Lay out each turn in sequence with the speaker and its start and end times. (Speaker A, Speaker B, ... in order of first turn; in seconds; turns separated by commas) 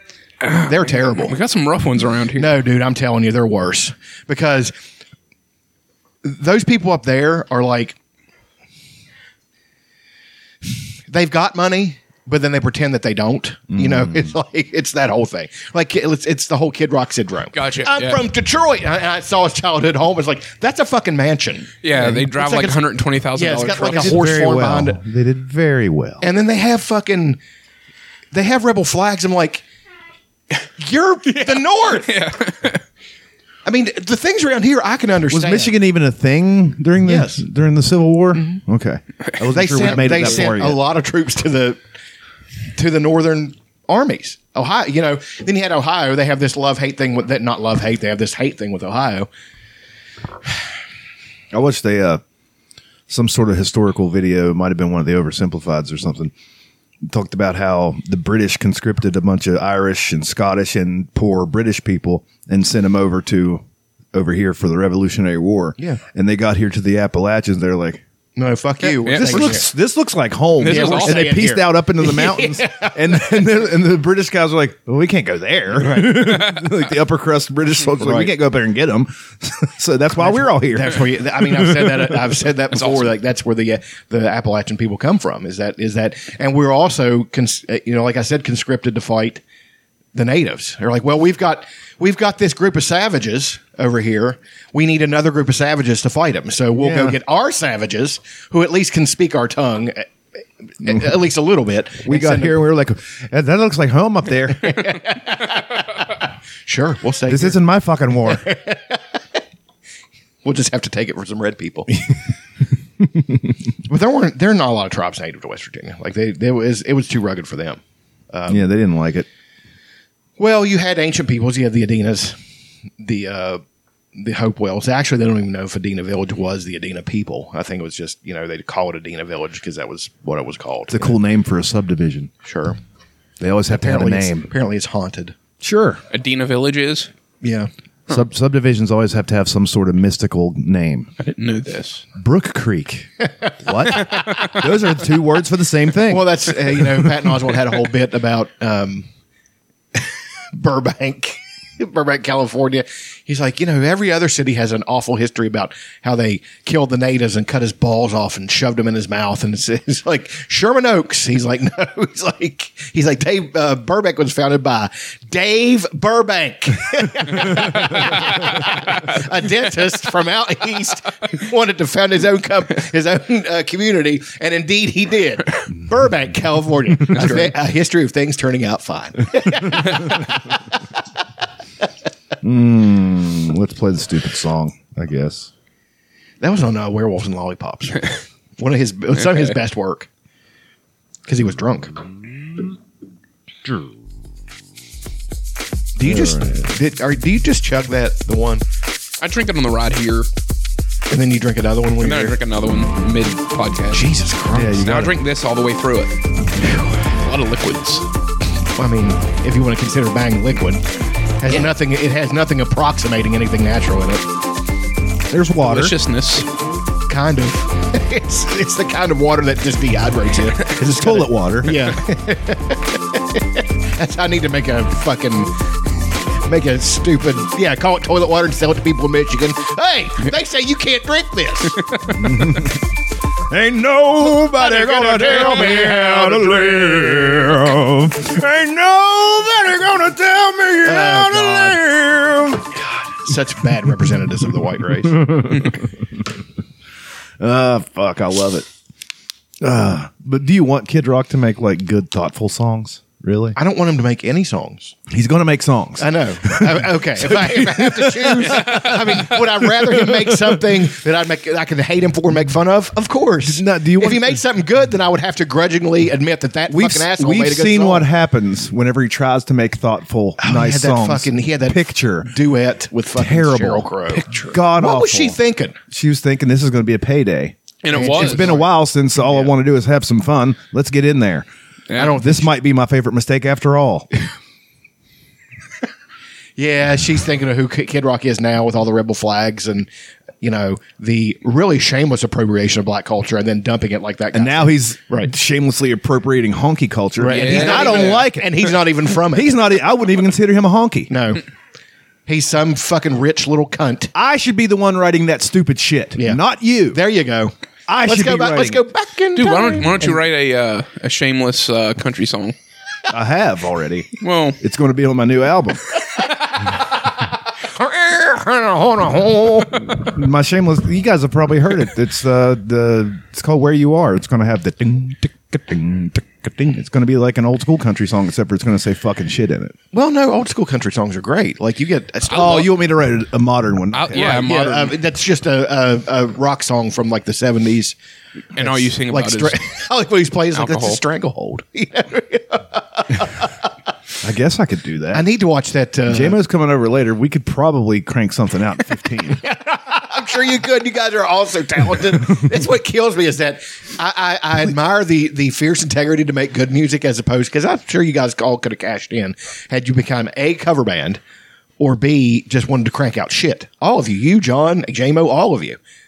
Speaker A: 0.4-2.5, Speaker B: 0.5-1.4, Speaker B: 2.3-4.7, Speaker B: 6.2-8.0, Speaker B: 11.1-22.8, Speaker C: 13.7-14.3, Speaker A: 17.5-18.2, Speaker A: 21.8-24.3, Speaker B: 23.3-25.0, Speaker C: 23.8-26.2, Speaker B: 26.2-27.4, Speaker B: 28.3-29.6, Speaker B: 30.8-32.2, Speaker A: 31.3-32.8, Speaker B: 33.6-35.7, Speaker C: 35.3-40.8, Speaker B: 37.0-37.4, Speaker B: 38.3-38.6, Speaker B: 39.5-41.8, Speaker B: 42.8-49.3, Speaker C: 51.5-52.2, Speaker C: 53.1-56.3, Speaker C: 57.0-68.0, Speaker B: 68.3-69.7, Speaker A: 69.0-69.6, Speaker C: 69.0-82.2, Speaker A: 70.6-71.3, Speaker B: 70.6-73.4, Speaker B: 75.8-76.4, Speaker B: 78.0-78.3, Speaker B: 80.2-89.4, Speaker A: 82.7-83.1, Speaker B: 90.1-100.1, Speaker C: 96.8-97.2, Speaker B: 100.8-102.6, Speaker C: 102.0-104.9, Speaker B: 104.6-106.1, Speaker B: 106.7-107.6, Speaker C: 107.3-108.4, Speaker B: 108.2-109.0, Speaker B: 110.4-112.0, Speaker C: 113.0-113.5, Speaker B: 113.8-117.8, Speaker B: 118.3-118.7, Speaker C: 118.5-119.3, Speaker B: 120.4-122.3, Speaker B: 123.0-123.6, Speaker B: 124.1-131.2, Speaker C: 130.9-132.3, Speaker B: 132.4-132.8, Speaker C: 133.4-134.5, Speaker B: 133.7-135.3, Speaker C: 135.6-136.0, Speaker A: 136.1-137.1, Speaker B: 137.4-137.7, Speaker C: 138.1-141.1, Speaker A: 141.2-142.0, Speaker C: 142.2-146.8, Speaker B: 146.1-149.1, Speaker B: 149.9-180.3, Speaker A: 177.1-177.5, Speaker C: 179.4-179.9, Speaker C: 182.4-185.5, Speaker B: 186.4-190.1, Speaker A: 189.2-189.5, Speaker B: 191.3-192.0, Speaker B: 195.9-198.6, Speaker C: 196.0-196.7, Speaker A: 199.2-200.3, Speaker B: 201.1-202.4, Speaker A: 202.0-204.1, Speaker B: 203.9-204.8, Speaker C: 204.5-205.2, Speaker A: 204.7-206.1, Speaker A: 207.0-208.1, Speaker B: 208.8-210.8, Speaker B: 211.4-214.2, Speaker C: 215.3-215.9, Speaker A: 215.6-216.4, Speaker B: 217.1-225.5, Speaker C: 220.8-221.8, Speaker B: 226.4-231.9, Speaker A: 231.8-232.6, Speaker C: 232.1-232.8, Speaker C: 233.5-242.7, Speaker B: 234.5-237.0, Speaker B: 240.8-241.8, Speaker B: 242.7-245.5, Speaker C: 245.0-246.2, Speaker C: 247.4-248.7, Speaker C: 249.6-253.6, Speaker B: 253.6-254.9, Speaker C: 255.1-260.6, Speaker B: 256.0-268.1, Speaker C: 263.4-264.4, Speaker C: 266.7-272.3, Speaker B: 270.4-275.8, Speaker C: 273.1-273.9, Speaker A: 274.1-274.6, Speaker C: 274.5-284.1, Speaker A: 277.8-278.6, Speaker B: 277.9-278.7, Speaker B: 279.2-279.5, Speaker A: 281.9-282.2, Speaker B: 282.0-282.5, Speaker B: 286.6-289.9, Speaker B: 290.4-295.3, Speaker C: 294.3-298.7, Speaker B: 297.2-299.6, Speaker A: 297.2-298.3, Speaker C: 299.2-301.1, Speaker B: 301.1-301.4, Speaker B: 302.3-304.1, Speaker C: 304.1-307.0, Speaker B: 306.2-310.2, Speaker C: 307.9-308.8, Speaker A: 309.4-312.5, Speaker C: 313.1-315.8, Speaker A: 314.2-314.6, Speaker B: 317.6-320.0, Speaker C: 319.9-329.8, Speaker B: 329.9-332.7, Speaker C: 332.3-334.4, Speaker A: 332.3-332.7, Speaker A: 333.9-335.0, Speaker B: 334.1-337.9, Speaker B: 338.5-343.7, Speaker A: 338.5-339.6, Speaker A: 340.5-341.0, Speaker C: 344.2-345.2, Speaker B: 345.1-346.4, Speaker C: 346.1-349.4, Speaker B: 349.2-361.2, Speaker B: 361.8-365.8